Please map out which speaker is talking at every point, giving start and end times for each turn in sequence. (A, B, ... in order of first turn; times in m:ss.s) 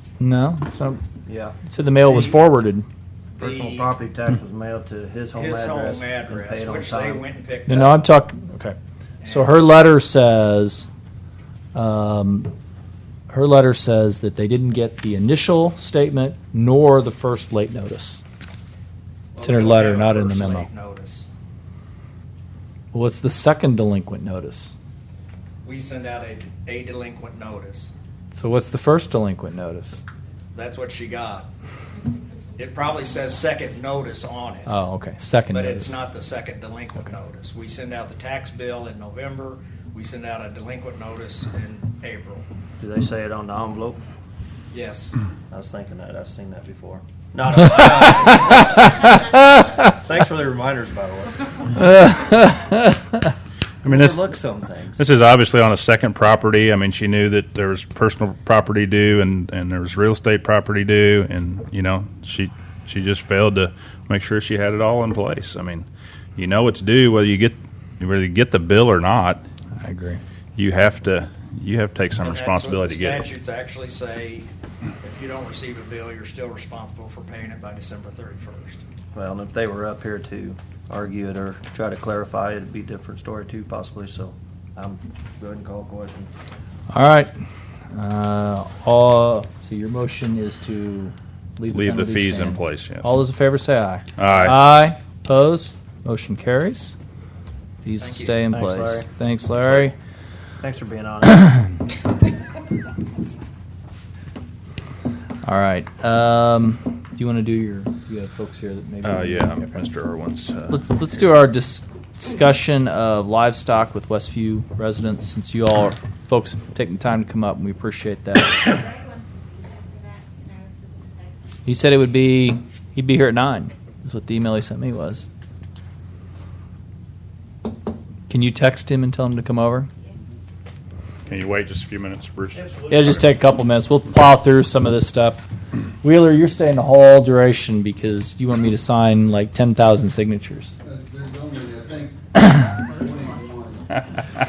0:00.2-0:01.0 A
0:01.3-0:01.6 B
0:01.7-0:02.9 A
0:03.4-0:03.9 C
0:03.4-0:07.2 B
0:05.3-0:08.0 C
0:07.7-0:10.9 A
0:09.2-0:09.5 C
0:11.7-0:12.5 A
0:13.3-0:18.2 A
0:19.3-0:21.3 C
0:19.4-0:20.7 A
0:22.9-0:24.7 A
0:25.6-0:27.9 C
0:28.3-0:30.0 A
0:30.5-0:31.5 C
0:32.6-0:34.7 C
0:34.7-0:36.0 A
0:35.5-0:42.5 C
0:42.8-0:44.0 B
0:44.7-0:45.1 C
0:45.5-0:51.7 B
0:48.5-0:49.8 A
0:51.8-0:53.3 A
0:53.8-0:54.2 D
0:53.8-0:55.1 B
0:55.0-1:09.4 D
1:09.8-1:10.2 A
1:10.6-1:13.2 D
1:12.2-1:14.5 C
1:15.0-1:18.8 C
1:19.1-1:26.3 B
1:26.9-1:27.3 A
1:27.9-1:37.0 A
1:31.7-1:33.1 D
1:34.2-1:34.6 D
1:37.8-1:40.0 A
1:38.0-1:38.4 C
1:38.5-1:39.1 B
1:40.6-1:41.7 B
1:45.4-1:49.8 A
1:49.0-1:50.9 D
1:50.7-1:58.6 A
1:58.6-2:02.0 E
2:01.6-2:05.3 A
2:08.3-2:09.9 A
2:11.3-2:12.8 D
2:12.9-2:15.5 A
2:16.0-2:20.8 A
2:20.8-2:21.9 E
2:23.0-2:23.7 E